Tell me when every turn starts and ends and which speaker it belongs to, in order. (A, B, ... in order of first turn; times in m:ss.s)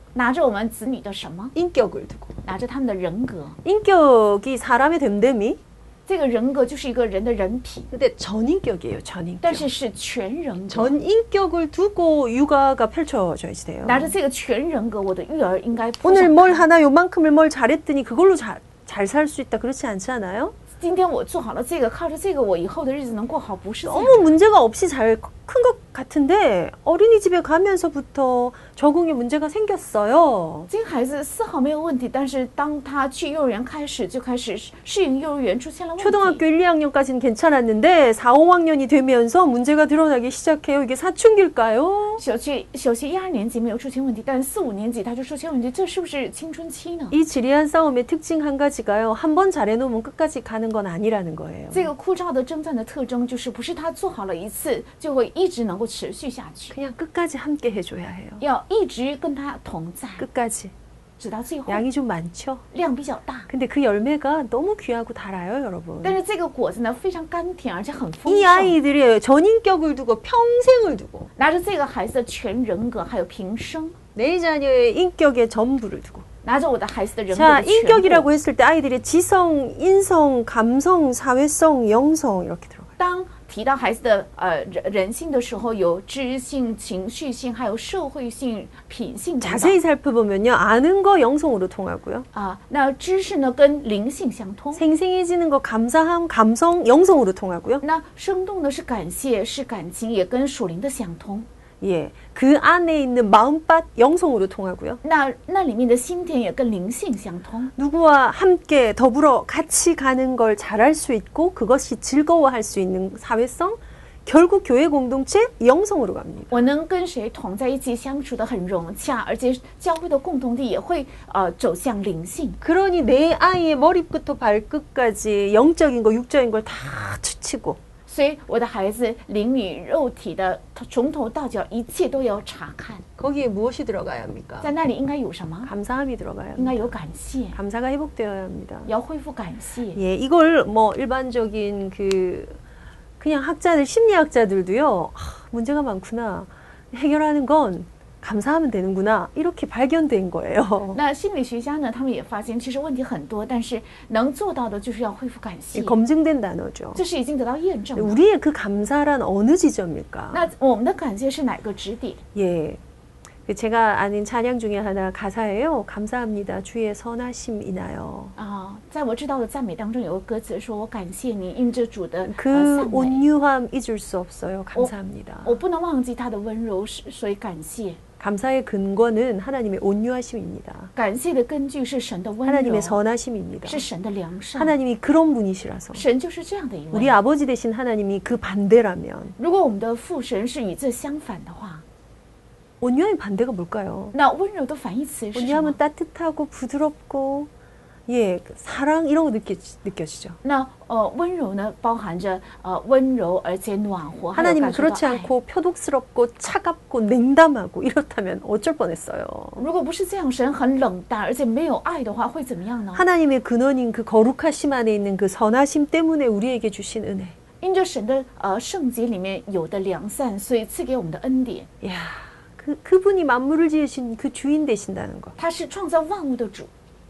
0:00.1-0:01.5 A
0:01.5-0:02.3 B
0:02.4-0:03.6 A
0:03.6-0:05.6 B
0:06.1-0:07.9 A
0:07.9-0:09.7 B
0:09.4-0:11.0 A
0:10.7-0:14.1 B
0:13.8-0:16.6 A
0:16.0-0:20.5 B
0:20.8-0:24.3 A
0:23.8-0:30.7 B
0:30.7-0:36.4 A
0:36.0-0:42.2 B
0:42.2-0:47.2 A
0:47.1-0:51.9 B
0:51.7-0:56.7 A
0:56.7-0:58.4 B
0:58.4-1:00.2 A
1:00.2-1:00.7 B
1:01.2-1:01.8 A
1:01.7-1:02.6 B
1:02.7-1:03.5 A
1:03.5-1:06.2 B
1:06.0-1:08.8 A
1:08.3-1:11.3 B
1:11.4-1:14.0 A
1:14.1-1:16.2 B
1:16.4-1:18.3 A
1:17.3-1:22.9 B
1:23.0-1:29.8 A
1:29.4-1:32.3 B
1:32.3-1:34.8 A
1:34.7-1:37.8 B
1:37.8-1:41.5 A
1:41.8-1:45.0 B
1:45.0-1:47.7 A
1:47.8-1:56.6 B
1:56.5-2:02.6 A
2:02.6-2:07.8 B
2:08.1-2:13.0 A
2:13.2-2:14.7 B
2:14.6-2:15.7 A
2:15.6-2:16.9 B
2:16.6-2:17.6 A
2:17.5-2:18.9 B
2:18.9-2:20.0 A
2:19.9-2:22.6 B
2:23.2-2:31.0 B
2:30.9-2:36.0 A
2:35.7-2:37.0 B
2:36.9-2:38.2 A
2:38.0-2:40.5 B
2:40.3-2:42.2 A
2:42.3-2:42.8 B
2:43.5-2:48.3 B
2:48.4-2:53.2 A
2:52.3-2:55.6 B
2:55.4-2:58.0 A
2:58.2-3:00.9 B
3:00.9-3:03.0 A
3:02.4-3:03.8 B
3:03.6-3:04.7 A
3:04.6-3:06.0 B
3:05.9-3:07.1 A
3:06.9-3:09.3 B
3:09.4-3:11.8 A
3:12.8-3:14.1 B
3:14.1-3:15.8 A
3:15.3-3:17.5 B
3:18.1-3:20.4 B
3:20.4-3:25.3 A
3:24.3-3:29.6 B
3:29.6-3:33.0 A
3:32.9-3:37.3 B
3:37.6-3:41.7 A
3:41.8-3:45.3 B
3:45.4-3:46.7 A